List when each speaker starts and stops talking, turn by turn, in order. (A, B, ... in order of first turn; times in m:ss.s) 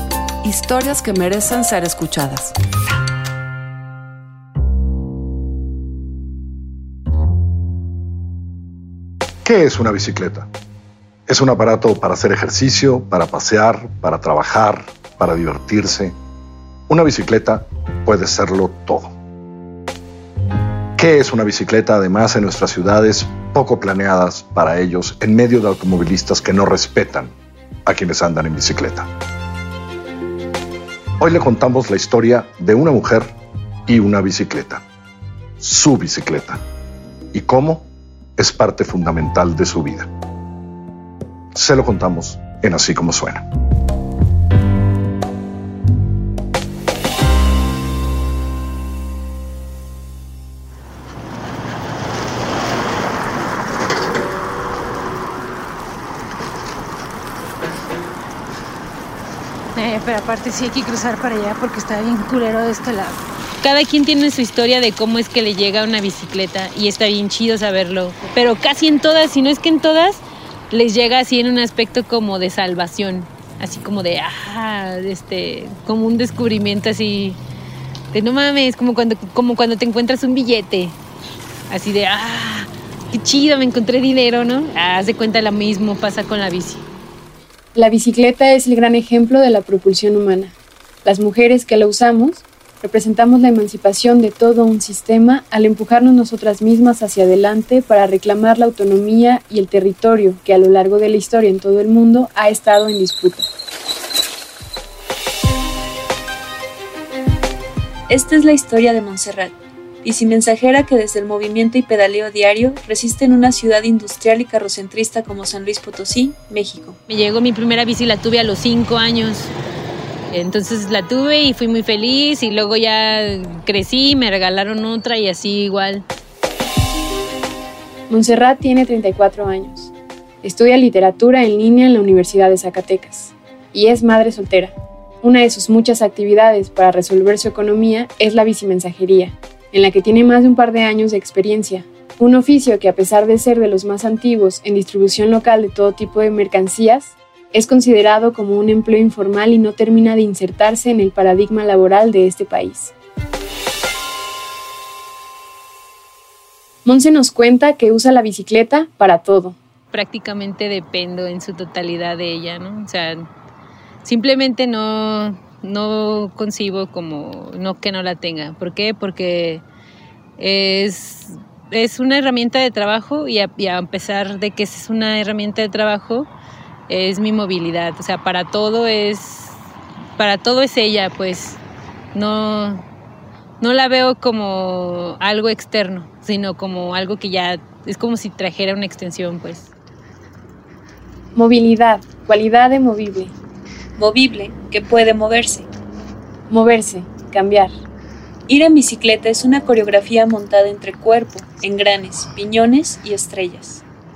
0:00.4-0:02.6 A
0:09.4-0:10.5 B
0:11.3-0:16.2 B
0:16.9-0:19.2 B
0:21.0-0:27.3 B
0:27.9-0:29.1 B
0:31.2-0:33.3 B
0:33.9-0:34.8 B
0:35.6-0:36.6 B
0:37.3-0:40.1 B
0:41.5-0:43.5 B
0:59.8-1:17.4 C
1:18.1-1:21.0 C
1:21.7-1:26.8 C
1:27.8-1:43.5 D
1:48.1-1:57.0 E
1:57.1-1:59.5 C
2:00.3-2:06.0 C
2:08.1-2:09.9 D
2:10.4-2:32.9 D
2:36.8-2:39.6 D
2:39.9-2:43.3 C
2:44.0-2:49.6 C
2:50.4-2:56.3 C
2:56.9-2:59.6 C
3:00.2-3:01.6 C
3:02.1-3:02.8 C
3:03.6-3:09.7 C
3:11.4-3:13.4 D
3:14.0-3:15.7 E
3:16.5-3:17.8 D
3:18.5-3:23.8 E